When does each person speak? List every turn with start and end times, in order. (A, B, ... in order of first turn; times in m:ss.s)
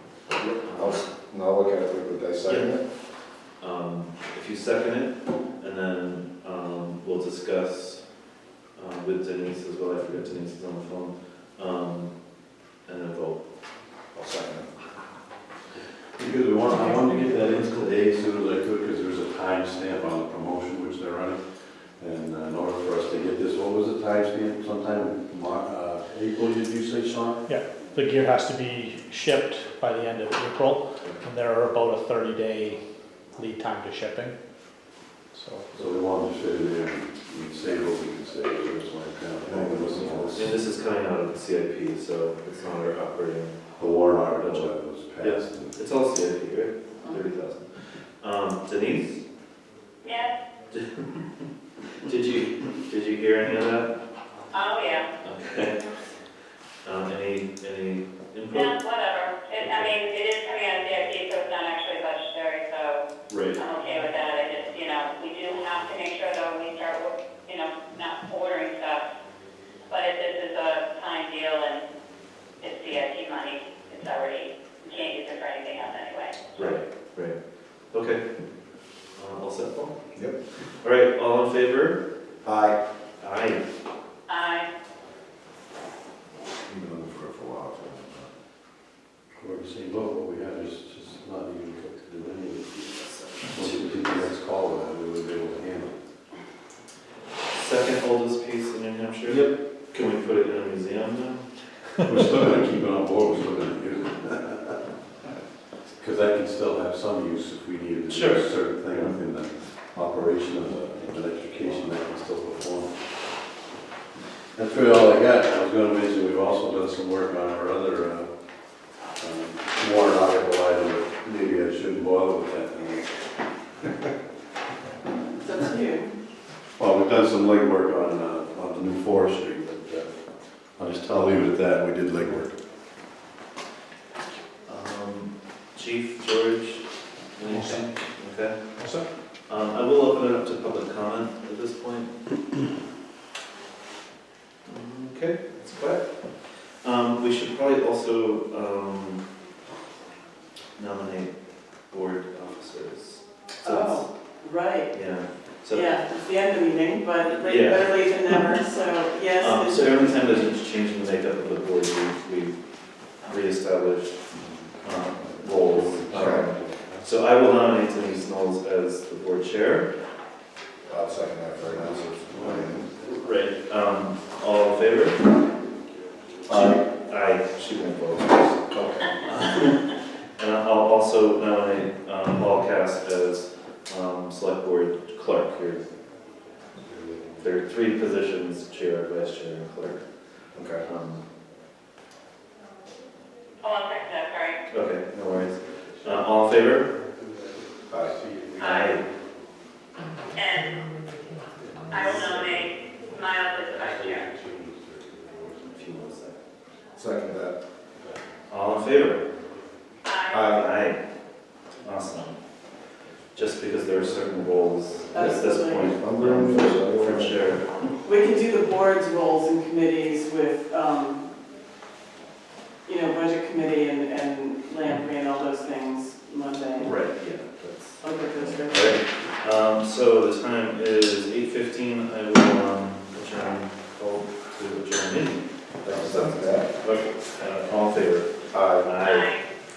0:00.4-0:02.8 A
0:00.6-0:01.0 B
0:02.5-0:08.0 B
0:08.8-0:12.2 B
0:12.8-0:13.4 B
0:14.1-0:14.7 A
0:16.2-0:27.4 C
0:27.5-0:32.8 D
0:33.4-0:34.4 D
0:35.3-0:35.8 D
0:35.7-0:40.6 C
0:39.5-0:40.2 A
0:40.0-0:49.2 B
0:43.8-0:45.8 C
0:50.0-0:50.4 E
0:50.7-0:51.2 B
0:52.0-0:53.9 B
0:54.5-0:55.1 E
0:55.2-0:55.9 B
0:56.8-0:58.8 B
0:58.5-1:03.0 E
0:59.6-0:59.9 B
1:03.3-1:03.6 B
1:03.6-1:09.0 E
1:09.9-1:11.8 E
1:12.6-1:16.7 E
1:16.6-1:17.4 B
1:17.9-1:18.2 B
1:19.2-1:22.0 B
1:22.4-1:22.8 A
1:23.2-1:23.7 B
1:24.3-1:24.7 E
1:26.6-1:28.3 A
1:29.4-1:36.0 C
1:32.9-1:34.2 B
1:37.6-1:42.0 B
1:39.3-1:39.5 C
1:42.1-1:44.8 C
1:46.0-1:53.0 C
1:48.1-1:49.2 B
1:54.6-1:58.3 C
1:59.2-2:03.3 C
2:05.4-2:06.1 F
2:06.8-2:10.1 C
2:10.8-2:12.6 C
2:14.7-2:22.1 B
2:17.4-2:17.9 D
2:18.8-2:19.1 D
2:24.7-2:29.3 B
2:30.8-2:34.1 B
2:33.6-2:35.0 F
2:34.9-2:36.0 B
2:35.7-2:40.4 F
2:37.4-2:37.9 B
2:39.4-2:42.6 B
2:43.2-2:44.3 B
2:44.8-2:49.9 B
2:45.7-2:46.0 C
2:46.1-2:46.5 A
2:46.7-2:47.0 C
2:50.9-2:52.9 A
2:52.3-2:52.8 C
2:52.9-2:55.4 B
2:56.5-2:56.8 A
2:56.5-2:58.6 B
2:58.6-2:59.1 A
2:59.2-3:05.8 B
3:06.8-3:07.4 C
3:07.4-3:10.0 B
3:10.5-3:10.8 A
3:10.8-3:11.2 B
3:13.6-3:14.6 E
3:14.7-3:16.9 B
3:15.8-3:16.3 C
3:17.1-3:19.2 C
3:17.9-3:18.2 A
3:18.6-3:19.0 E
3:18.6-3:19.1 B
3:20.4-3:20.9 E
3:21.6-3:22.7 C
3:21.9-3:24.3 E
3:23.8-3:25.9 C
3:25.7-3:26.4 B
3:27.0-3:27.6 A
3:28.5-3:29.3 B
3:30.0-3:30.6 E
3:30.3-3:30.6 A
3:30.5-3:31.0 B
3:31.8-3:32.4 B
3:33.3-3:37.9 B
3:35.1-3:36.0 F
3:35.8-3:37.4 A
3:38.0-3:41.3 F
3:42.8-3:47.0 F
3:46.8-3:59.3 B
3:48.0-3:48.9 F
3:55.8-3:56.7 A
3:58.5-3:58.9 A
3:58.9-3:59.5 E